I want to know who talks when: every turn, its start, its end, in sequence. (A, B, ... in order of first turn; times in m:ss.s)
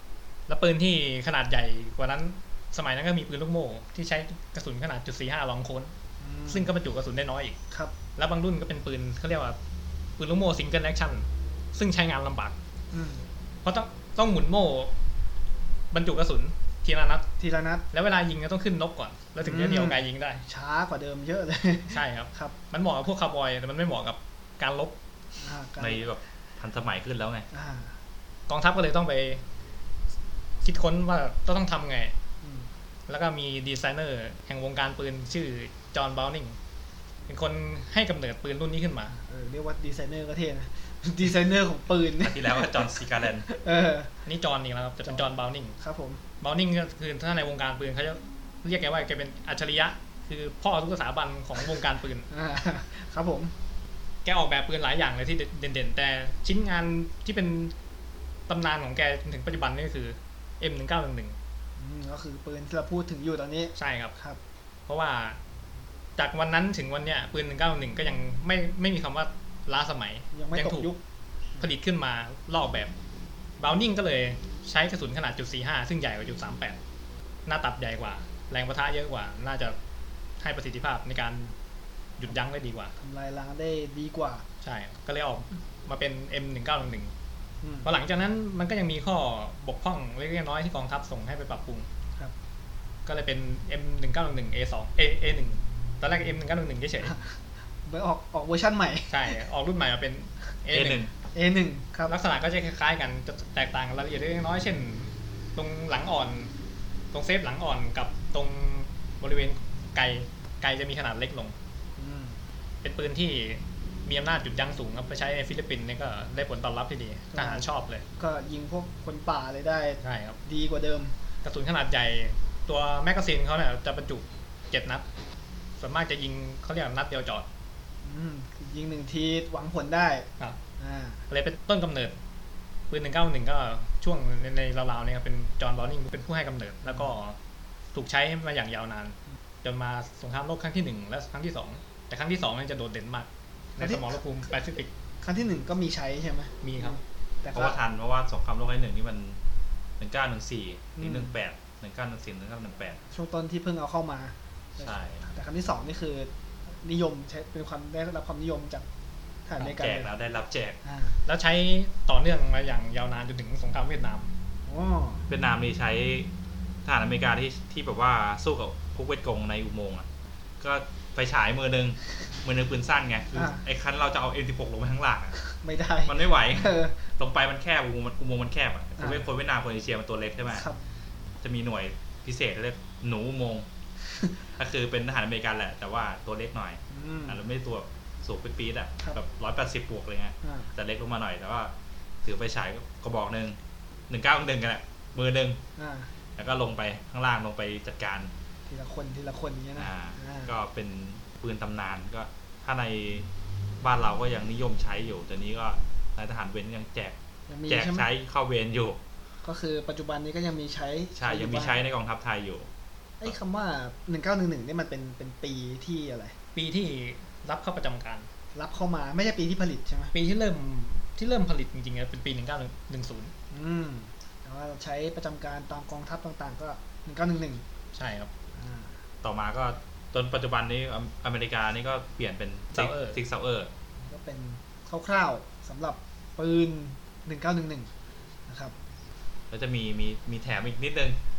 0:00.5-0:05.9 A
0:06.2-0:06.7 B
0:06.5-0:07.6 A
0:08.2-0:09.6 A
0:10.2-0:12.6 A
0:12.9-0:13.2 B
0:13.6-0:14.9 A
0:15.9-0:17.3 A
0:17.4-0:17.8 B
0:17.9-0:20.4 A
0:19.4-0:22.6 B
0:21.9-0:25.0 A
0:25.4-0:26.0 B
0:25.8-0:27.5 C
0:27.5-0:28.0 B
0:28.5-0:29.4 A
0:30.6-0:32.2 A
0:32.4-0:32.7 B
0:33.1-0:36.6 A
0:37.3-0:39.1 A
0:39.1-0:44.1 B
0:42.2-0:43.5 C
0:44.2-0:45.8 A
0:45.1-0:46.2 B
0:46.4-0:52.3 A
0:52.3-0:53.5 B
0:54.2-0:57.7 A
0:58.5-1:01.4 A
1:01.8-1:04.4 B
1:03.8-1:04.2 A
1:04.9-1:05.4 A
1:06.2-1:10.9 A
1:10.3-1:11.0 B
1:11.6-1:12.9 A
1:13.6-1:16.8 A
1:17.5-1:19.8 A
1:20.4-1:21.6 A
1:22.2-1:22.9 A
1:23.0-1:24.4 B
1:24.6-1:27.1 A
1:27.6-1:27.9 B
1:27.8-1:31.9 A
1:33.0-1:37.2 A
1:37.0-1:37.3 B
1:37.9-1:39.4 B
1:39.1-1:41.1 A
1:40.7-1:41.1 C
1:41.3-1:42.2 B
1:42.1-1:46.5 A
1:47.1-1:51.6 A
1:52.0-1:52.4 B
1:52.8-1:58.0 A
1:57.3-1:57.7 B
1:58.2-2:01.1 B
2:00.0-2:00.4 A
2:01.4-2:05.1 A
2:05.8-2:07.5 A
2:08.0-2:11.2 B
2:11.3-2:12.2 A
2:12.9-2:17.4 A
2:16.9-2:17.1 B
2:17.9-2:24.9 A
2:23.8-2:24.2 B
2:25.2-2:27.8 B
2:26.6-2:27.0 A
2:27.5-2:29.4 C
2:30.0-2:33.0 C
2:31.0-2:31.4 B
2:33.1-2:38.8 B
2:34.8-2:35.2 C
2:39.5-2:40.1 B
2:39.6-2:40.8 C
2:40.8-2:41.2 B
2:41.3-2:44.3 A
2:44.7-2:45.3 B
2:45.3-2:46.3 C
2:46.8-2:50.1 C
2:50.6-2:55.4 C
2:53.3-2:53.6 B
2:55.4-2:57.0 B
2:56.1-3:00.7 C
2:59.0-2:59.3 B
3:00.5-3:00.8 B
3:01.4-3:03.7 C
3:04.4-3:15.6 C
3:06.9-3:07.4 B
3:10.4-3:10.7 B
3:15.8-3:16.1 B
3:16.4-3:18.3 C
3:18.7-3:20.5 B
3:19.8-3:23.3 C
3:23.8-3:27.2 C
3:27.5-3:28.1 B
3:27.7-3:29.0 C
3:29.4-3:31.8 B
3:31.2-3:32.7 C
3:33.2-3:36.4 B
3:36.6-3:38.3 A
3:38.6-3:40.1 B
3:40.1-3:43.3 A
3:43.5-3:47.6 B
3:47.9-3:48.3 A
3:48.5-3:49.0 B
3:49.2-3:53.7 C
3:52.7-3:53.2 A
3:54.0-3:57.9 B
3:58.5-3:58.7 B
3:59.5-4:01.2 C